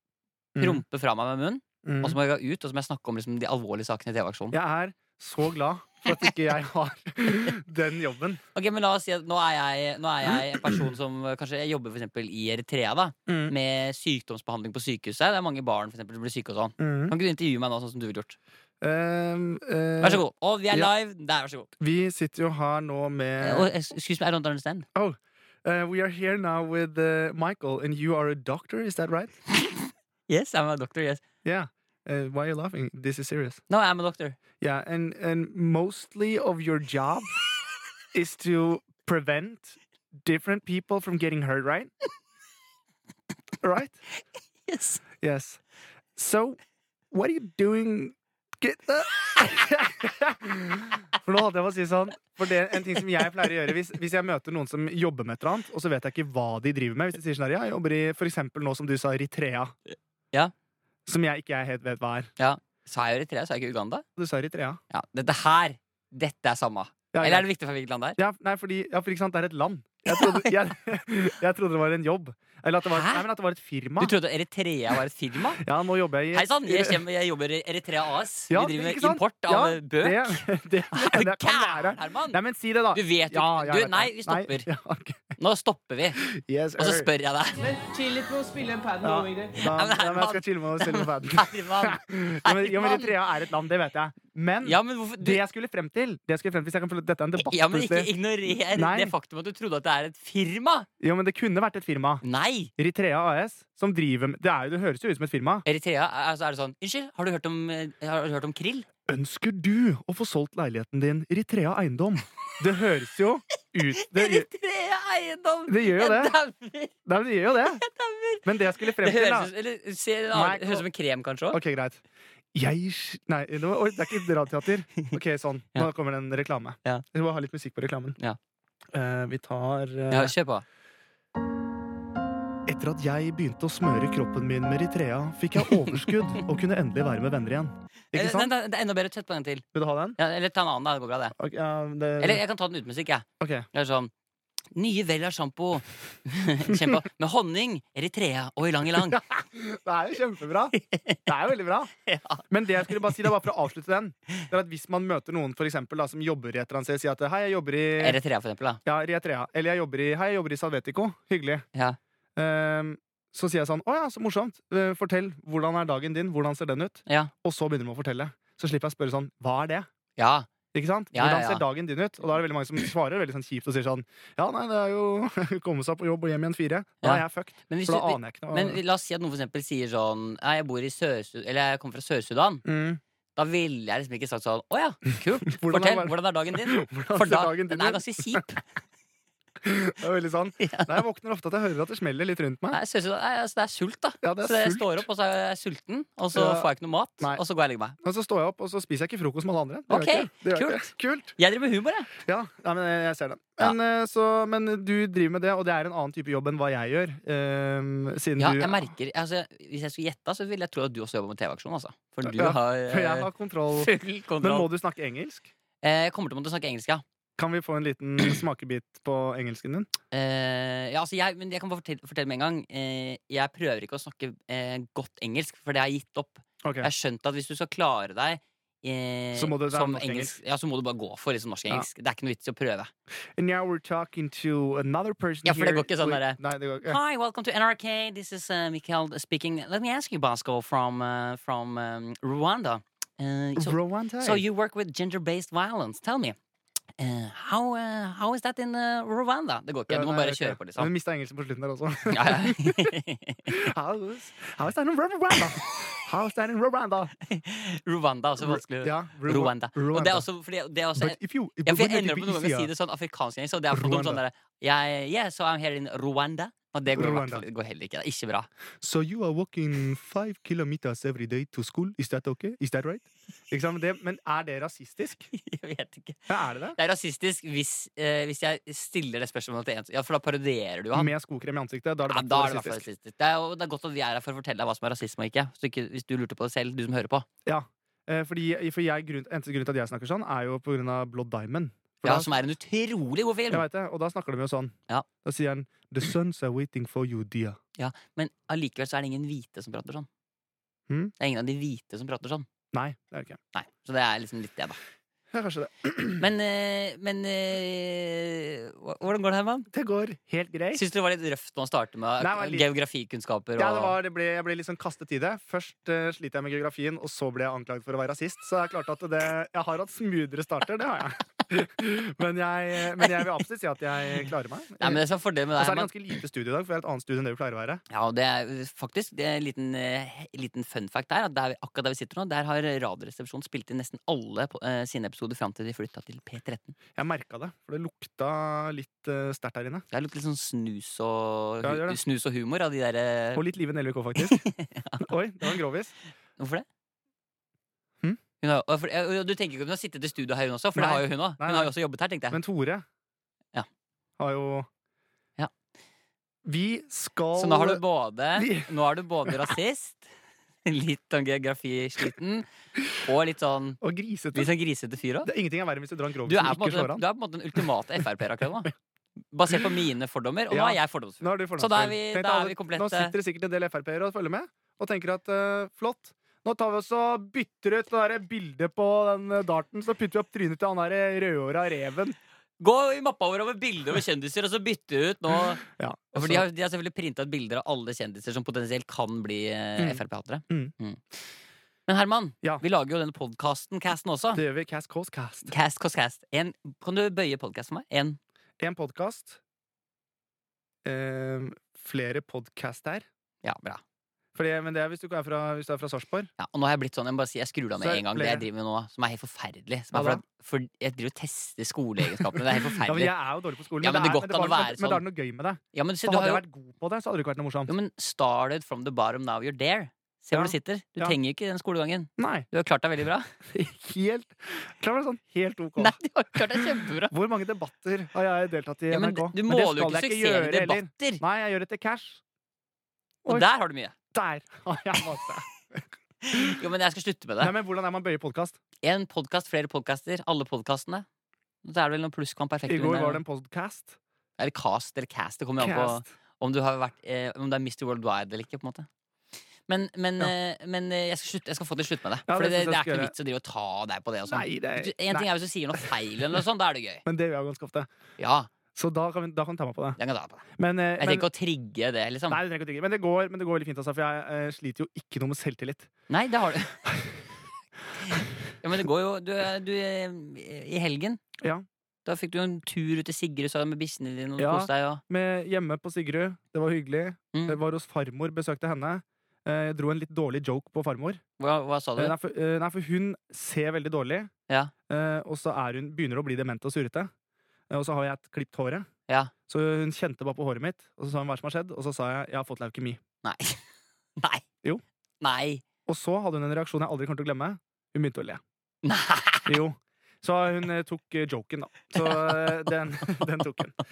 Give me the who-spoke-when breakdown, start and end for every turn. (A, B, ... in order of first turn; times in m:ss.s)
0:00.5-0:00.8 A
0:00.6-0:04.6 B
0:01.8-0:02.2 A
0:04.5-0:08.4 A
0:08.5-0:18.4 B
0:13.3-0:13.5 A
0:16.8-0:17.1 A
0:18.8-0:20.9 A
0:20.0-0:21.7 B
0:21.8-0:23.7 A
0:23.4-0:24.9 B
0:24.9-0:29.3 A
0:29.6-0:31.2 B
0:31.4-0:33.6 A
0:33.7-0:34.4 B
0:34.6-0:37.4 A
0:38.1-0:41.9 A
0:43.6-0:44.0 A
0:44.6-0:45.0 B
0:45.2-0:45.6 A
0:46.2-0:46.6 A
0:47.1-0:59.8 A
1:01.0-1:02.3 A
1:02.4-1:04.0 B
1:04.2-1:04.8 A
1:04.9-1:08.2 B
1:07.1-1:07.5 A
1:08.2-1:14.1 A
1:10.1-1:10.5 B
1:12.9-1:13.2 B
1:14.0-1:15.6 B
1:15.6-1:17.0 A
1:16.3-1:22.4 B
1:18.5-1:25.4 A
1:22.9-1:24.7 B
1:25.4-1:26.2 B
1:26.2-1:27.1 A
1:26.8-1:27.6 B
1:27.6-1:29.6 C
1:29.0-1:38.1 A
1:29.7-1:33.1 B
1:34.6-1:35.4 B
1:37.4-1:40.9 B
1:38.6-1:39.1 A
1:41.0-1:42.2 A
1:42.2-1:42.7 B
1:42.8-1:45.6 A
1:45.6-1:48.9 B
1:49.1-1:54.5 A
1:53.9-1:56.9 B
1:55.7-1:56.3 A
1:57.0-1:57.8 A
1:57.6-2:01.6 B
1:58.4-1:59.5 A
2:00.3-2:00.8 A
2:01.5-2:02.0 A
2:02.5-2:08.2 A
2:08.9-2:10.3 A
2:10.1-2:10.6 B
2:12.7-2:18.5 A
2:15.6-2:16.2 B
2:18.1-2:19.6 B
2:19.7-2:20.2 A
2:20.2-2:21.3 B
2:21.4-2:22.4 A
2:22.2-2:24.1 B
2:23.4-2:23.7 A
2:24.7-2:29.2 B
2:26.7-2:26.9 A
2:28.9-2:30.7 A
2:30.8-2:31.2 B
2:31.2-2:31.9 A
2:32.0-2:33.2 B
2:32.5-2:38.2 A
2:38.0-2:38.8 B
2:38.8-2:41.6 A
2:42.4-2:49.9 A
2:47.1-2:47.3 B
2:50.2-2:50.5 B
2:50.7-2:58.8 A
2:51.1-2:51.6 B
2:57.0-3:02.6 B
3:02.6-3:03.0 A
3:03.4-3:08.6 B
3:05.5-3:08.4 A
3:09.6-3:12.8 A
3:10.6-3:10.9 B
3:12.7-3:18.0 B
3:14.2-3:15.0 A
3:16.3-3:16.7 A
3:18.0-3:21.4 A
3:19.9-3:22.1 B
3:22.2-3:28.9 A
3:28.4-3:34.7 B
3:32.2-3:35.5 A
3:35.8-3:37.0 B
3:37.4-3:39.9 A
3:40.1-3:52.9 B
3:46.6-3:46.9 A
3:49.3-3:50.4 A
3:53.4-3:57.0 A
3:55.4-4:06.4 B
4:03.6-4:04.4 A
4:07.0-4:10.9 B
4:09.9-4:12.9 A
4:12.1-4:13.6 B
4:13.5-4:17.1 A
4:17.2-4:28.5 B
4:18.4-4:20.2 A
4:21.0-4:22.7 A
4:23.7-4:24.2 A
4:26.9-4:27.4 A
4:28.8-4:35.3 A
4:35.3-4:41.1 B
4:36.3-4:36.8 A
4:40.9-4:42.8 A
4:42.1-4:47.2 B
4:47.4-4:52.4 A
4:52.0-4:53.6 B
4:53.5-4:57.6 A
4:57.8-5:00.1 B
5:01.2-5:02.5 B
5:02.7-5:03.4 A
5:03.5-5:04.8 B
5:05.3-5:06.2 A
5:06.2-5:09.7 B
5:09.7-5:10.8 A
5:10.7-5:14.0 B
5:12.2-5:12.6 A
5:13.6-5:25.0 A
5:24.8-5:25.9 B
5:25.5-5:27.8 A
5:27.9-5:36.7 B
5:37.0-5:39.8 A
5:39.9-5:43.4 B
5:41.6-5:42.0 A
5:43.3-5:44.4 A
5:44.2-5:45.1 B
5:45.0-5:45.9 A
5:46.4-5:46.6 B
5:48.4-5:52.4 B
5:50.7-5:51.7 A
5:52.3-5:52.8 A
5:54.2-5:54.7 A
5:56.4-5:57.8 A
5:57.3-6:00.1 B
5:58.3-5:58.7 A
6:00.6-6:03.8 B
6:03.8-6:04.5 A
6:04.3-6:05.3 B
6:05.2-6:07.0 A
6:06.3-6:08.7 B
6:09.3-6:13.1 B
6:10.5-6:22.2 A
6:22.6-6:25.6 B
6:25.6-6:26.4 A
6:26.1-6:31.2 B
6:29.8-6:30.7 A
6:31.9-6:34.4 B
6:34.3-6:35.5 A
6:35.5-6:38.2 B
6:38.6-6:39.4 A
6:40.8-6:43.0 A
6:43.4-6:43.8 B
6:44.3-6:46.3 A
6:46.4-6:53.1 B
6:47.8-6:48.4 A
6:49.9-6:50.2 A
6:52.2-6:57.7 A
6:53.8-6:55.0 B
6:55.7-6:56.4 B
6:57.7-7:03.3 B
7:00.3-7:01.2 A
7:02.2-7:02.5 A
7:03.5-7:12.2 A
7:05.8-7:07.1 B
7:08.9-7:11.2 B
7:13.3-7:13.9 B
7:14.1-7:16.6 A
7:16.2-7:17.5 B
7:17.4-7:18.6 A
7:18.8-7:21.0 B
7:21.6-7:23.2 B
7:22.7-7:24.0 A
7:24.4-7:28.9 B
7:25.6-7:26.1 A
7:29.7-7:37.0 B
7:32.3-7:33.1 A
7:34.3-7:35.9 A
7:37.0-7:37.9 A
7:38.2-7:38.5 B
7:38.7-7:40.0 A
7:40.0-7:40.4 B
7:40.6-7:41.2 A
7:41.0-7:42.4 B
7:42.3-7:45.9 A
7:46.1-7:46.8 B
7:46.8-7:47.2 A
7:48.0-7:51.2 B
7:52.0-7:55.0 B
7:54.4-8:01.2 A
7:57.3-7:57.6 B
8:01.4-8:02.2 B
8:02.0-8:04.3 A
8:04.9-8:07.1 A
8:07.7-8:08.9 A
8:09.5-8:13.0 A
8:13.2-8:13.6 B
8:14.2-8:14.4 B
8:15.2-8:15.6 B
8:15.8-8:18.4 A
8:18.8-8:19.6 B
8:19.4-8:23.8 A
8:22.0-8:22.7 B